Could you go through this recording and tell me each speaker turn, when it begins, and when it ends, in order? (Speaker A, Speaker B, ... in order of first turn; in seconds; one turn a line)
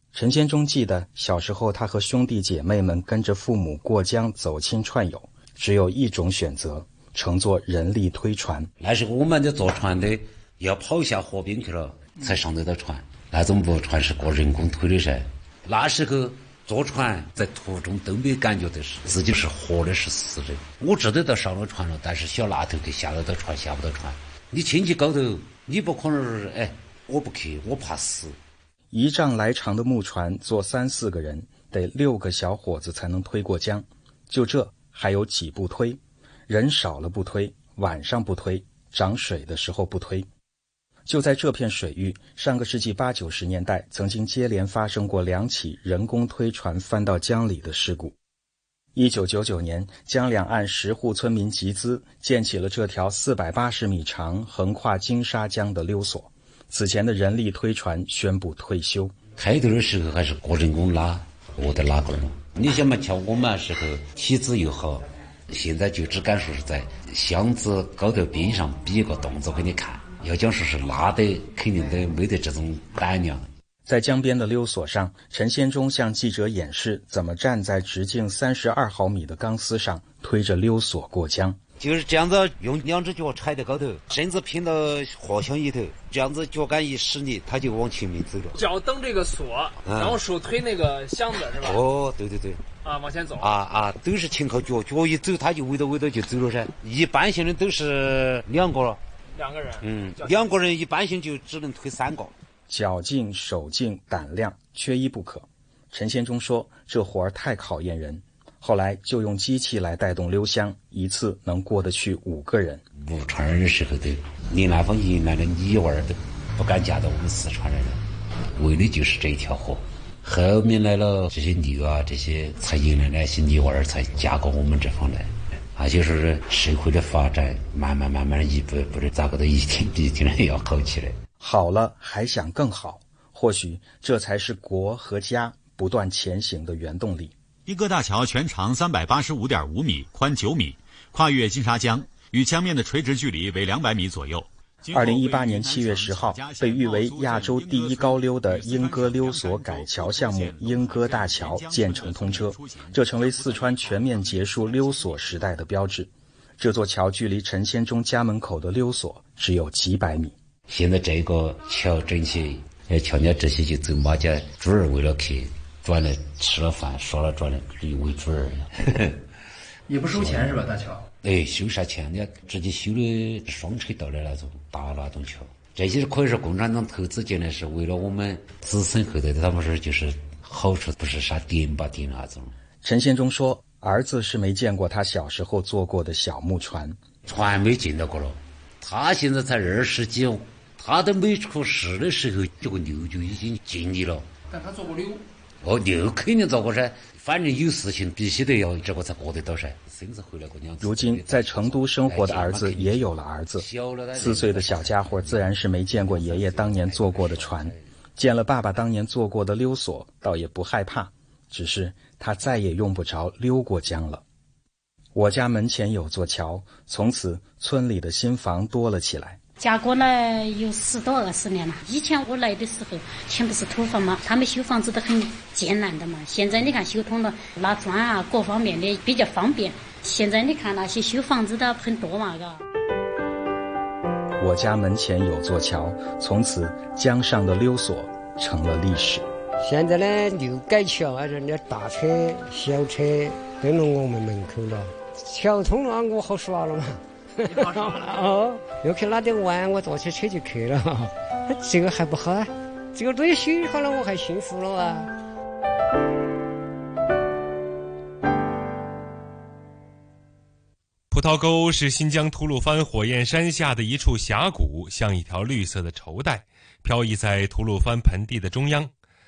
Speaker A: 0.1-8.7
Speaker B: 8.8-28.4
Speaker A: 28.9-40.3
Speaker A: 41.1-48.2
Speaker A: 49.0-59.2
Speaker B: 59.4-73.5
Speaker A: 73.9-81.6
Speaker B: 81.8-88.6
Speaker C: 88.6-91.8
Speaker B: 89.8-90.2
Speaker B: 91.6-92.6
Speaker C: 92.8-93.5
Speaker B: 93.4-99.0
Speaker C: 99.3-100.5
Speaker B: 99.8-102.3
Speaker A: 102.7-112.8
Speaker B: 113.0-118.0
Speaker B: 118.6-131.2
Speaker A: 131.4-137.3
Speaker D: 137.7-155.2
Speaker A: 144.9-160.4
Speaker B: 160.7-169.2
Speaker B: 170.1-170.6
Speaker B: 171.2-182.5
Speaker A: 182.8-187.0
Speaker B: 187.2-194.3
Speaker C: 194.5-195.2
Speaker B: 195.6-207.9
Speaker A: 200.8-214.2
Speaker A: 215.2-219.4
Speaker E: 219.6-232.6
Speaker A: 234.4-239.3
Speaker F: 239.6-255.1
Speaker G: 261.1-268.9